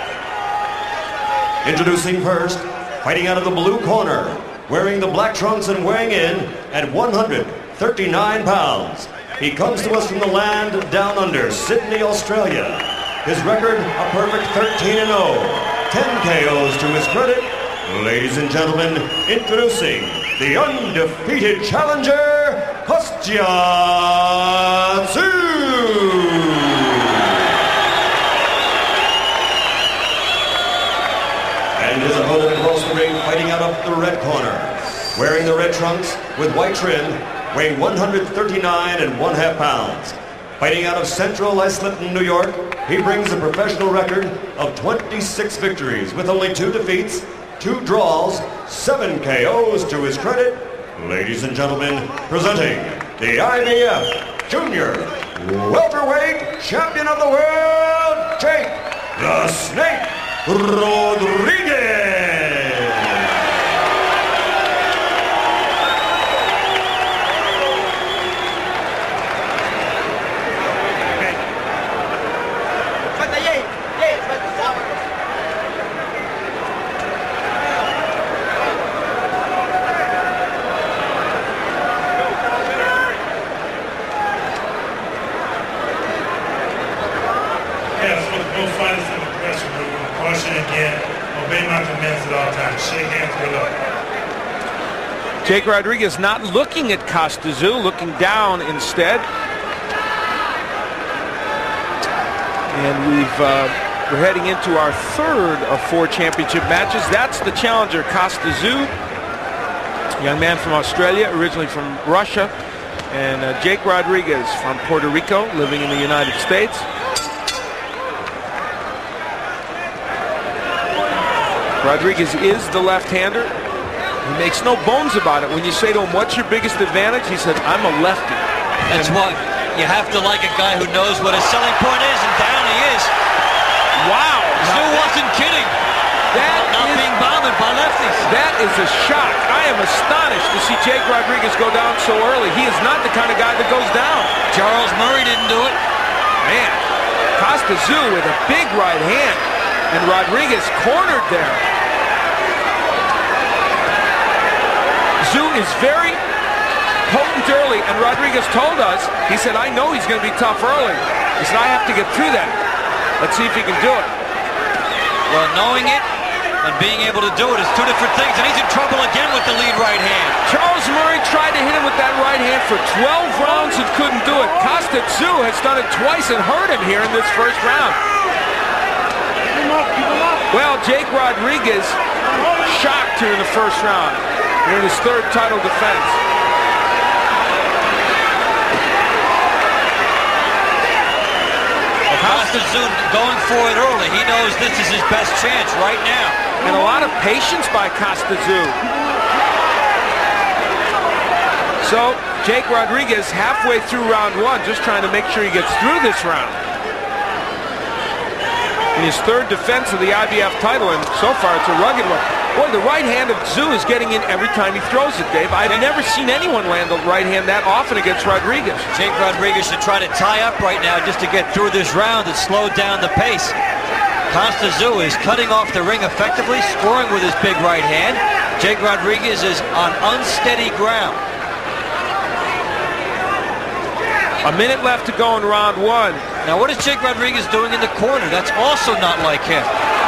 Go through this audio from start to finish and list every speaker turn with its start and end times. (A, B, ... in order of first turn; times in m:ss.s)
0:01.6-0:27.5 A
0:31.8-1:03.3 A
1:28.0-1:33.8 B
1:35.4-1:39.3 C
1:42.7-1:48.9 C
1:50.2-1:52.5 C
1:53.1-1:56.9 C
2:01.8-2:03.5 C
2:04.2-2:09.2 C
2:08.9-2:13.1 D
2:14.0-2:15.2 C
2:14.6-2:15.7 D
2:16.3-2:17.1 C
2:16.3-2:18.3 D
2:18.2-2:24.3 C
2:24.5-2:25.8 D
2:26.4-2:26.8 C
2:27.4-2:31.6 C
2:35.2-2:36.2 C
2:37.1-2:42.6 C
2:43.2-2:44.1 C
2:45.3-2:46.0 D
2:46.6-2:50.4 D
2:50.5-2:58.0 C
2:59.7-3:00.3 B
3:00.5-3:06.2 C
3:12.1-3:16.4 D
3:12.2-3:12.6 C
3:16.6-3:18.8 C
3:21.8-3:26.6 C
3:29.0-3:38.9 C
3:38.9-3:43.6 D
3:44.3-3:51.2 D
3:54.4-3:56.2 C
3:56.4-3:59.7 D